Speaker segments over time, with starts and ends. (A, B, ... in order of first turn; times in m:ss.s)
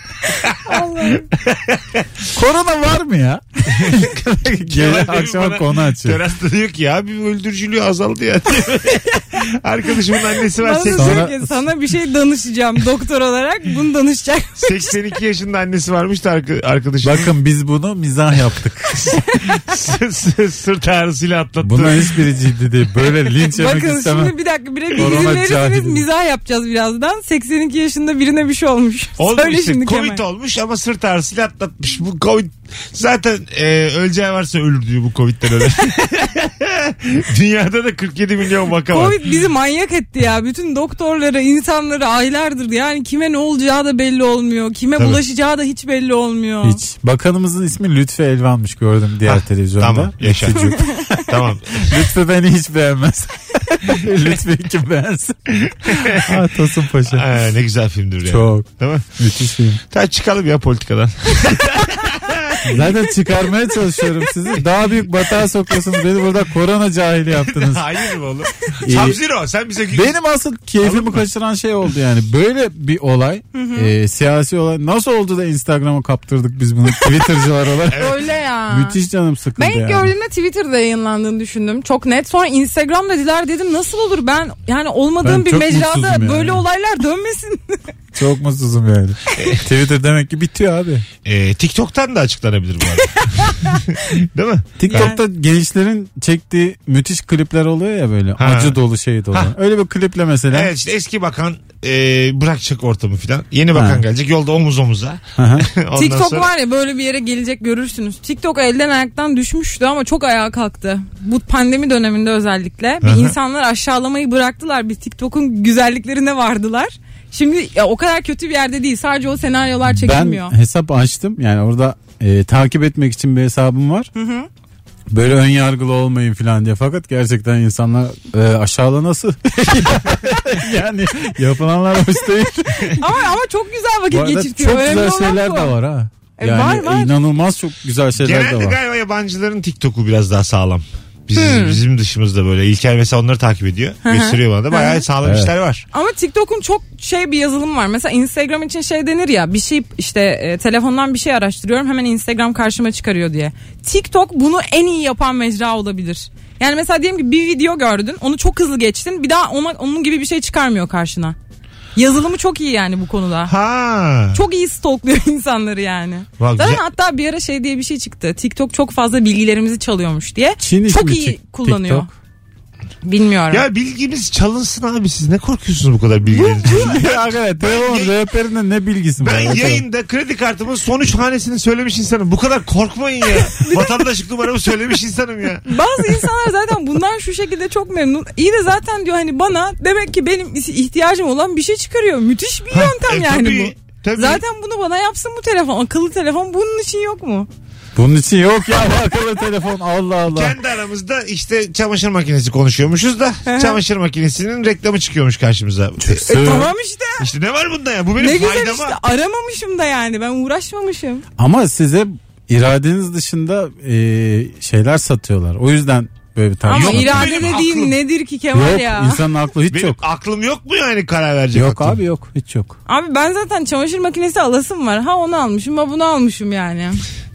0:00.3-0:00.5 A
0:00.6-0:01.3 B
0:01.3-0:02.1 A
0:02.3-0:06.2 C
0:03.7-0:04.1 A
0:04.6-0:11.2 A
0:10.6-0:14.9 B
0:10.9-0:11.5 C
0:14.6-0:17.3 A
0:17.0-0:18.9 C
0:19.0-0:22.2 A
0:21.6-0:24.3 C
0:23.5-0:30.2 B
0:24.9-0:26.0 C
0:29.2-0:39.2 A
0:38.9-0:46.8 B
0:46.6-0:51.2 C
0:49.3-0:52.0 A
0:51.7-0:57.3 C
0:55.7-0:56.3 A
0:57.1-0:59.0 A
0:58.2-0:59.8 C
0:59.9-1:02.8 A
1:02.6-1:07.8 C
1:07.4-1:10.2 A
1:08.8-1:09.2 C
1:09.9-1:18.1 C
1:10.8-1:11.3 A
1:13.5-1:13.9 B
1:17.9-1:18.2 A
1:17.9-1:19.0 B
1:18.7-1:20.1 C
1:19.6-1:27.9 B
1:25.2-1:26.6 C
1:28.1-1:31.0 C
1:29.3-1:29.6 A
1:31.2-1:35.1 A
1:33.2-1:33.8 B
1:34.8-1:40.7 C
1:34.9-1:35.2 B
1:38.4-1:38.8 A
1:40.5-1:46.5 A
1:43.7-1:44.0 C
1:45.4-1:45.7 C
1:45.9-2:00.5 B
1:53.0-1:53.3 A
2:00.0-2:04.1 C
2:04.1-2:04.5 B
2:05.1-2:13.0 C
2:12.9-2:15.7 B
2:14.1-2:18.8 C
2:16.4-2:17.1 B
2:18.2-2:25.8 A
2:21.3-2:21.8 B
2:24.0-2:25.0 B
2:25.2-2:25.5 C
2:25.9-2:41.4 B
2:42.0-2:43.5 B
2:43.4-2:44.4 A
2:44.3-2:52.1 B
2:46.4-2:46.8 A
2:50.6-2:52.1 C
2:53.0-2:53.6 B
2:53.5-2:58.1 A
2:56.3-2:56.9 B
2:56.7-2:59.8 C
2:59.2-3:05.7 A
3:03.4-3:03.9 B
3:05.6-3:17.5 B
3:12.7-3:14.4 A
3:17.9-3:20.6 C
3:20.3-3:26.6 A
3:23.4-3:23.8 B
3:26.0-3:26.7 C
3:26.2-3:27.2 B
3:27.2-3:29.0 A
3:28.2-3:31.2 B
3:31.4-3:37.6 C
3:36.7-3:39.2 B
3:36.7-3:38.0 A
3:38.5-3:40.0 C
3:39.7-3:42.0 A
3:41.5-3:42.8 C
3:42.9-3:47.0 B